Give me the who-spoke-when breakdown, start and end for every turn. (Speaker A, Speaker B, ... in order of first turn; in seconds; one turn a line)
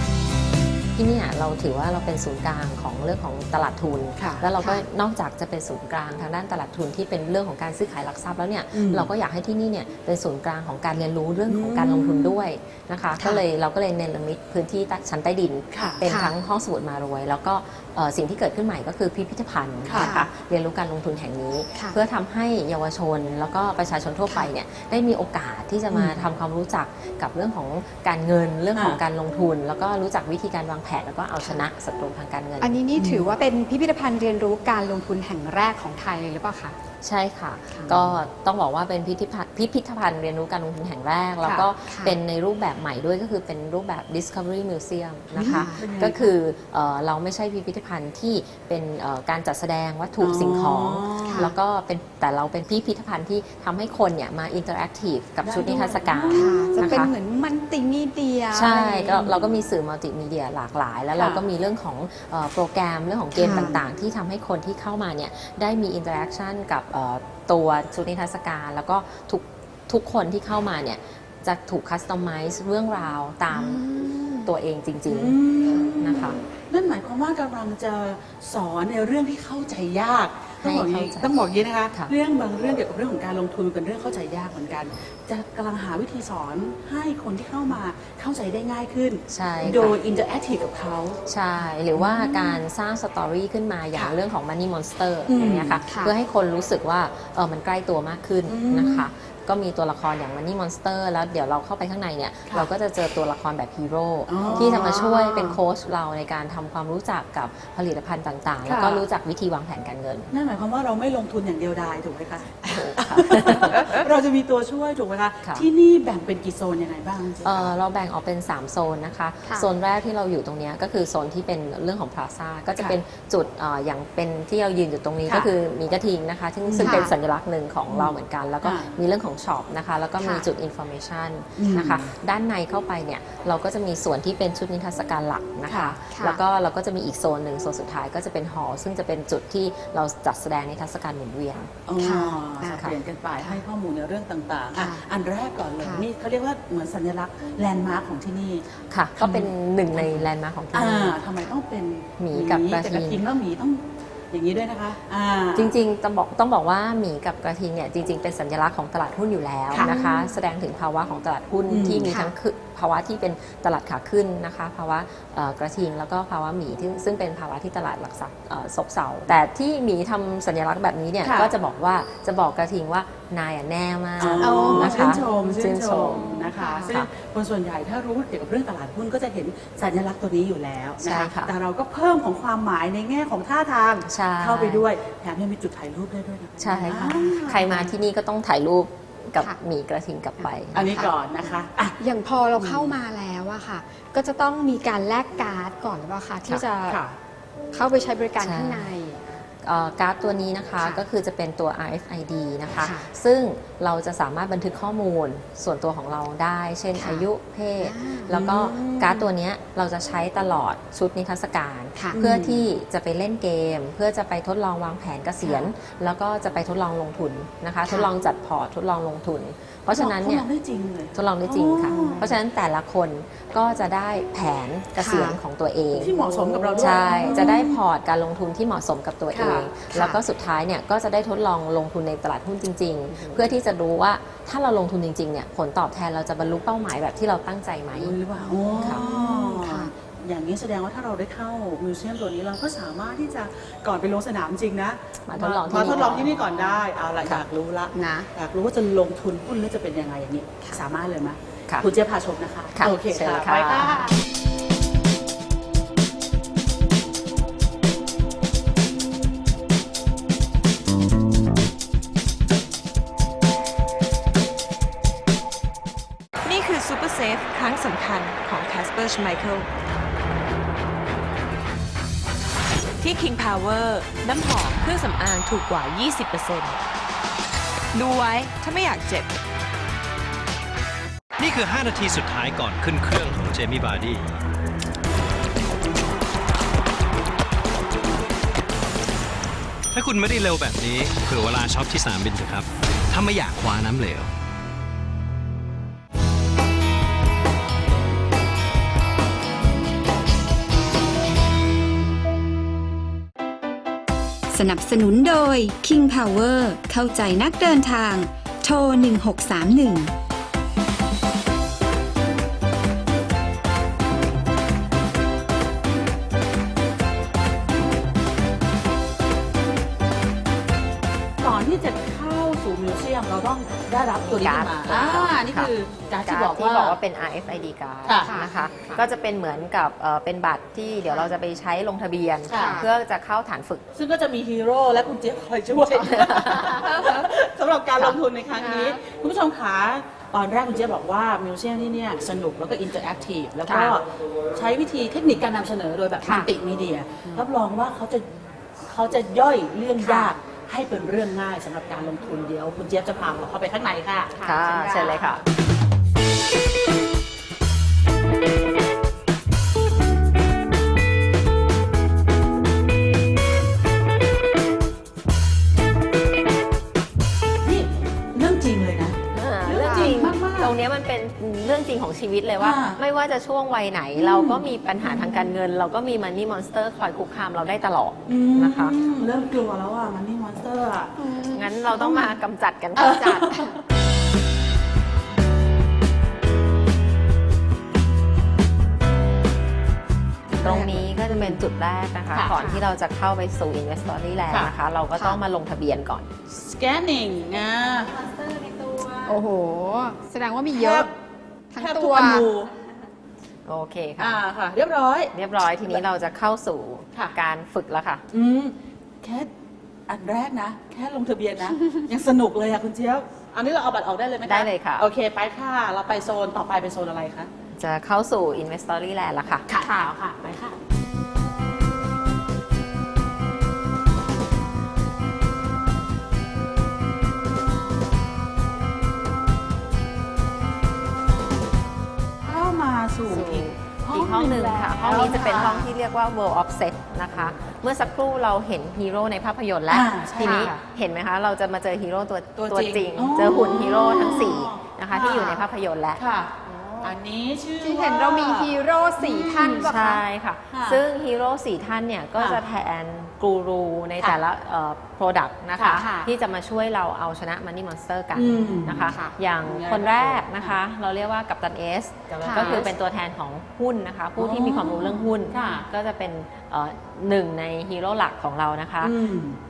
Speaker A: 1.0-32.8
Speaker B: 4.2-4.5
Speaker B: 8.7-9.1
Speaker B: 11.5-12.4
Speaker B: 15.7-16.0
Speaker C: 16.0-16.3
Speaker B: 19.9-20.1
Speaker C: 19.9-20.3
Speaker B: 25.9-26.2
Speaker B: 28.8-29.0
Speaker C: 31.4-31.7
Speaker C: 32.6-36.8
Speaker B: 33.0-33.3
Speaker A: 37.0-57.1
Speaker B: 37.9-38.1
Speaker C: 41.4-42.2
Speaker B: 45.4-46.3
Speaker C: 45.4-45.9
Speaker B: 50.2-51.5
Speaker C: 51.3-51.5
Speaker B: 55.4-57.1
Speaker C: 56.3-59.2
Speaker A: 58.5-76.4
Speaker B: 59.2-59.6
Speaker C: 63.4-63.7
Speaker C: 73.5-74.5
Speaker B: 75.1-91.2
Speaker A: 80.6-82.1
Speaker A: 89.3-90.0
Speaker A: 91.3-110.3
Speaker B: 92.0-92.6
Speaker B: 95.3-95.8
Speaker C: 95.9-96.1
Speaker B: 98.5-99.1
Speaker B: 104.3-105.5
Speaker C: 104.5-105.3
Speaker B: 108.7-109.0
Speaker B: 110.3-117.8
Speaker A: 112.7-114.0
Speaker A: 115.4-115.7
Speaker A: 117.4-141.7
Speaker B: 126.7-127.0
Speaker C: 126.8-127.1
Speaker B: 127.9-128.9
Speaker C: 130.2-130.5
Speaker B: 131.6-132.1
Speaker B: 135.7-136.0
Speaker C: 136.1-136.4
Speaker B: 141.9-148.7
Speaker C: 142.0-142.8
Speaker C: 144.8-145.0
Speaker C: 145.8-146.1
Speaker A: 148.9-151.2
Speaker B: 149.2-155.7
Speaker A: 152.2-153.2
Speaker A: 155.6-176.3
Speaker B: 159.7-160.3
Speaker B: 161.7-162.1
Speaker C: 162.1-162.3
Speaker B: 171.2-171.5
Speaker B: 174.2-187.9
Speaker C: 174.4-175.6
Speaker C: 176.1-177.0
Speaker A: 181.0-181.5
Speaker A: 184.1-184.9
Speaker A: 186.6-190.9
Speaker C: 186.9-187.6
Speaker C: 190.4-191.1
Speaker B: 190.7-192.0
Speaker C: 192.0-197.0
Speaker B: 192.6-192.9
Speaker B: 196.9-197.2
Speaker C: 197.7-199.2
Speaker A: 198.4-198.9
Speaker A: 199.6-220.5
Speaker C: 202.8-203.1
Speaker C: 206.9-207.3
Speaker C: 207.8-208.3
Speaker B: 208.3-209.3
Speaker B: 212.2-212.6
Speaker B: 219.9-222.3
Speaker A: 221.1-238.2
Speaker C: 221.9-222.3
Speaker C: 225.0-225.4
Speaker B: 225.9-227.8
Speaker C: 226.3-227.2
Speaker B: 229.3-229.7
Speaker C: 229.9-230.2
Speaker B: 237.9-254.2
Speaker C: 238.4-239.9
Speaker A: 245.3-246.3
Speaker C: 245.7-246.8
Speaker C: 247.9-248.3
Speaker A: 252.8-253.9
Speaker D: 266.4-269.7
Speaker D: 273.0-276.8
Speaker D: 277.9-279.3
Speaker E: 281.4-284.3
Speaker E: 289.9-294.3
Speaker F: 304.5-310.1
Speaker B: 321.4-327.0
Speaker A: 324.2-333.8
Speaker B: 328.1-328.3
Speaker C: 328.2-329.0
Speaker C: 331.1-331.3
Speaker B: 332.5-332.8
Speaker C: 332.5-332.9
Speaker B: 333.9-355.2
Speaker A: 336.1-336.9
Speaker C: 338.6-339.0
Speaker A: 343.7-344.0
Speaker C: 346.2-346.5
Speaker C: 350.0-350.3
Speaker C: 354.4-355.3
Speaker A: 354.4-355.4
Speaker B: 367.6-370.7
Speaker A: 369.3-378.9
Speaker C: 369.8-370.1
Speaker B: 372.6-373.0
Speaker B: 374.1-375.5
Speaker B: 378.3-381.2
Speaker C: 381.2-381.7
Speaker A: 381.5-383.7
Speaker B: 381.9-382.3
Speaker B: 383.0-383.8
Speaker C: 390.6-391.4
Speaker A: 390.6-396.3
Speaker B: 392.3-392.6
Speaker C: 392.5-392.8
Speaker B: 396.5-398.2
Speaker C: 398.3-401.1
Speaker B: 400.7-401.1
Speaker C: 401.7-402.5
Speaker B: 401.8-402.7
Speaker A: 403.7-404.4
Speaker B: 404.2-405.3
Speaker A: 405.3-408.2
Speaker B: 408.3-409.5
Speaker B: 410.1-417.5
Speaker A: 414.4-415.1
Speaker A: 417.8-419.7
Speaker B: 419.7-420.8
Speaker C: 419.8-420.1
Speaker B: 432.4-435.9
Speaker A: 433.3-446.2
Speaker B: 439.9-440.7
Speaker C: 440.4-440.7
Speaker B: 442.6-445.6
Speaker B: 446.2-449.9
Speaker C: 446.6-447.2
Speaker C: 447.8-450.2
Speaker A: 449.8-469.2
Speaker B: 450.7-451.0
Speaker B: 455.8-456.0
Speaker C: 455.9-456.3
Speaker B: 458.4-460.8
Speaker C: 459.1-459.4
Speaker B: 462.3-462.9
Speaker C: 462.4-462.8
Speaker B: 464.4-465.9
Speaker B: 469.0-469.6